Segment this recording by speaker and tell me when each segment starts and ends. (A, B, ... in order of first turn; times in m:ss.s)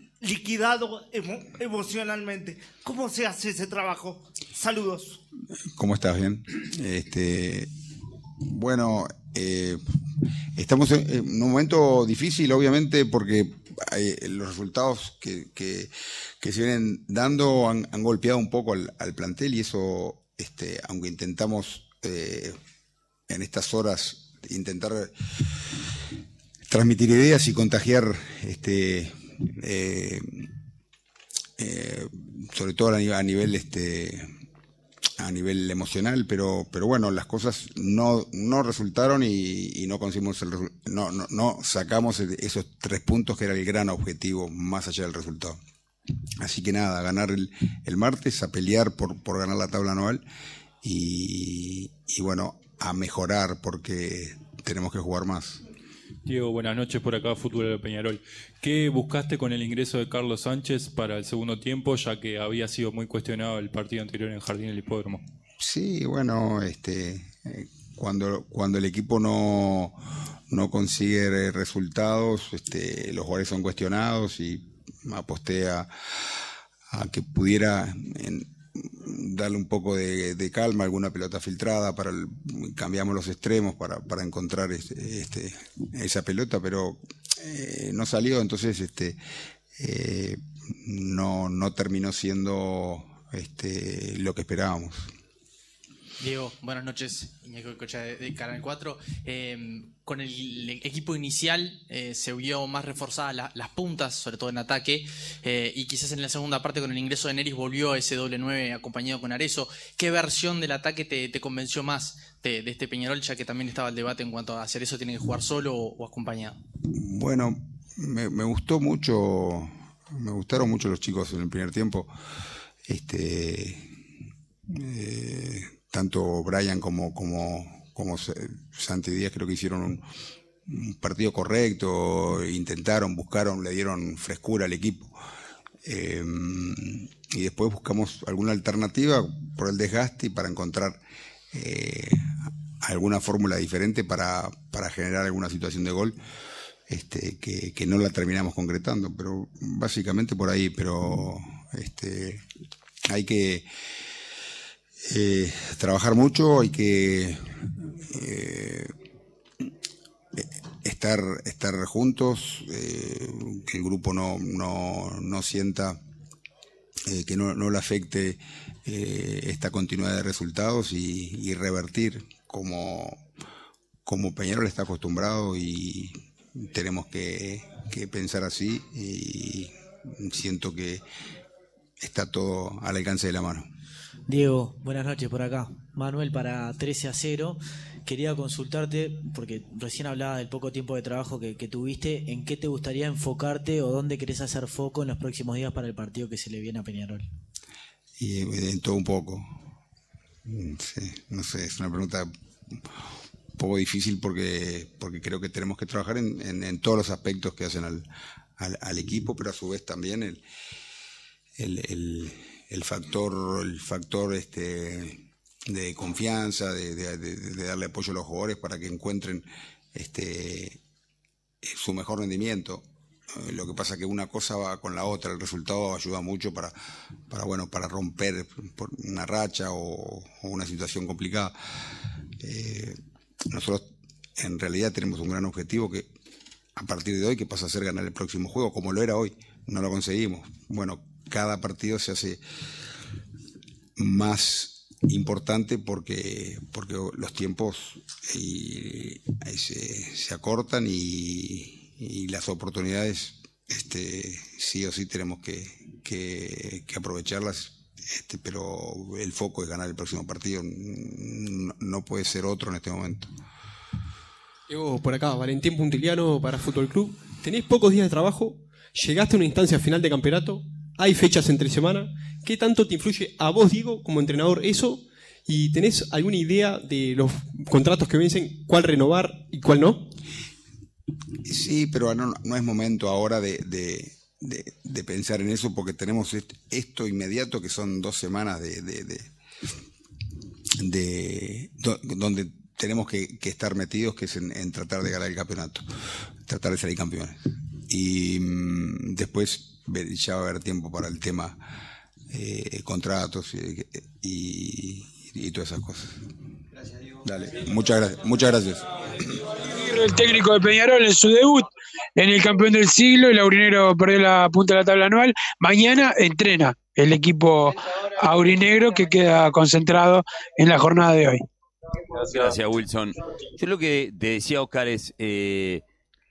0:00.2-0:05.2 A
0:05.8-0:07.7 B
0:08.4-0:09.8 B
0:10.6-0:22.6 B
0:23.3-0:25.1 B
0:26.7-0:30.5 B
0:31.6-0:34.3 B
0:35.2-0:45.6 B
0:46.4-0:50.2 B
0:50.8-0:55.6 B
0:56.3-1:05.2 C
1:05.6-1:10.0 B
1:10.5-1:15.9 B
1:16.9-1:29.2 B
1:29.8-1:35.1 B
1:36.2-1:56.6 D
1:56.9-2:02.1 B
2:02.9-2:03.8 B
2:04.7-2:10.0 B
2:10.7-2:15.1 B
2:15.8-2:21.0 B
2:21.5-2:22.3 B
2:22.8-2:26.2 B
2:26.9-2:32.4 B
2:33.1-2:33.7 B
2:35.0-2:38.9 B
2:40.4-2:46.0 B
2:47.1-2:53.2 B
2:54.0-3:01.0 B
3:02.0-3:03.6 B
3:04.3-3:17.2 E
3:18.2-3:19.5 B
3:20.5-3:22.3 B
3:23.6-3:28.1 B
3:28.6-3:30.4 B
3:31.6-3:40.8 B
3:41.6-3:42.8 B
3:43.4-3:46.7 B
3:47.3-3:51.6 B
3:52.4-3:53.0 B
3:53.5-3:53.8 B
3:54.4-3:56.1 B
3:56.8-4:02.4 B
4:04.0-4:23.3 B
4:24.7-4:40.1 F
4:41.4-4:49.3 B
4:50.8-4:55.8 B
4:56.5-5:01.6 B
5:02.3-5:06.2 B
5:07.2-5:08.8 B
5:09.8-5:21.4 G
5:22.2-5:25.8 H